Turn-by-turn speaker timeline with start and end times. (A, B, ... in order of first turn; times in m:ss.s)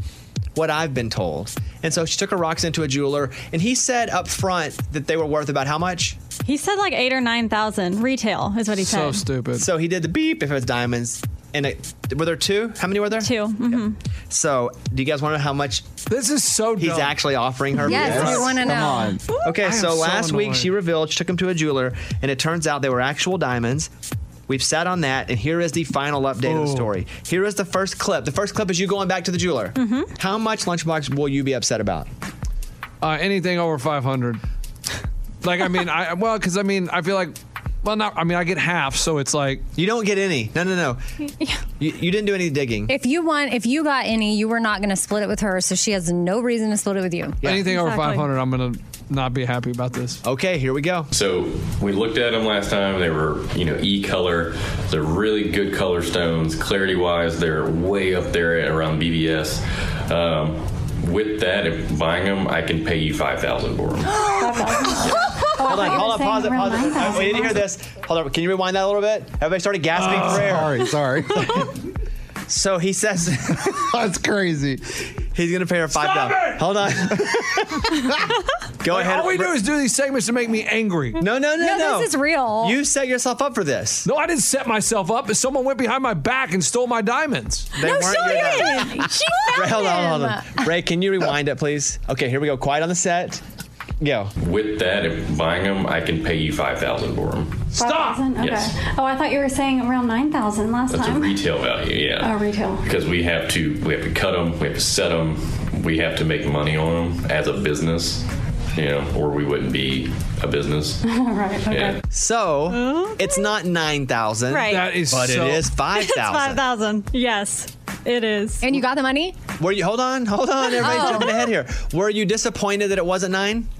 0:00.5-0:06.2 A
0:06.4-0:09.2 B
0:08.8-0:09.7 C
0:09.6-0:15.9 A
0:13.2-0:14.0 B
0:16.1-0:17.1 C
0:16.8-0:18.6 A
0:17.8-0:19.2 D
0:17.9-0:19.2 E
0:19.4-0:23.9 A
0:19.5-0:20.7 C
0:24.5-0:32.1 A
0:26.4-0:26.9 C
0:29.8-0:30.1 B
0:33.0-0:34.4 C
0:35.4-0:39.6 C
0:39.8-0:41.0 A
0:41.8-0:42.9 A
0:42.9-0:47.4 D
0:47.4-0:50.2 C
0:47.6-0:48.3 B
0:50.2-0:51.1 A
0:51.1-1:04.2 F
1:04.2-1:04.5 D
1:04.4-1:07.6 B
1:05.6-1:10.8 A
1:09.9-1:10.5 C
1:10.2-1:11.6 E
1:12.5-1:13.9 A
1:13.9-1:14.8 E
1:15.3-1:17.9 A
1:15.9-1:16.6 C
1:18.8-1:19.6 A
1:18.9-1:21.2 C
1:21.2-1:24.1 A
1:21.6-1:22.8 D
1:24.0-1:27.7 C
1:27.7-1:33.4 A
1:27.8-1:30.7 D
1:28.2-1:28.5 B
1:29.3-1:29.6 B
1:34.0-1:34.3 A
1:34.4-1:37.7 F
1:37.7-1:41.4 B
1:37.8-1:38.2 C
1:38.3-1:38.8 F
1:40.9-1:51.0 F
1:42.2-1:42.8 B
1:51.0-1:52.0 B
1:51.7-1:52.0 F
1:52.1-1:56.6 A
1:52.7-1:53.5 B
1:54.5-1:54.9 B
1:54.7-1:55.7 C
1:55.9-1:58.6 B
1:58.6-1:59.4 D
1:59.6-2:03.7 A
2:00.6-2:01.5 B
2:00.9-2:01.2 D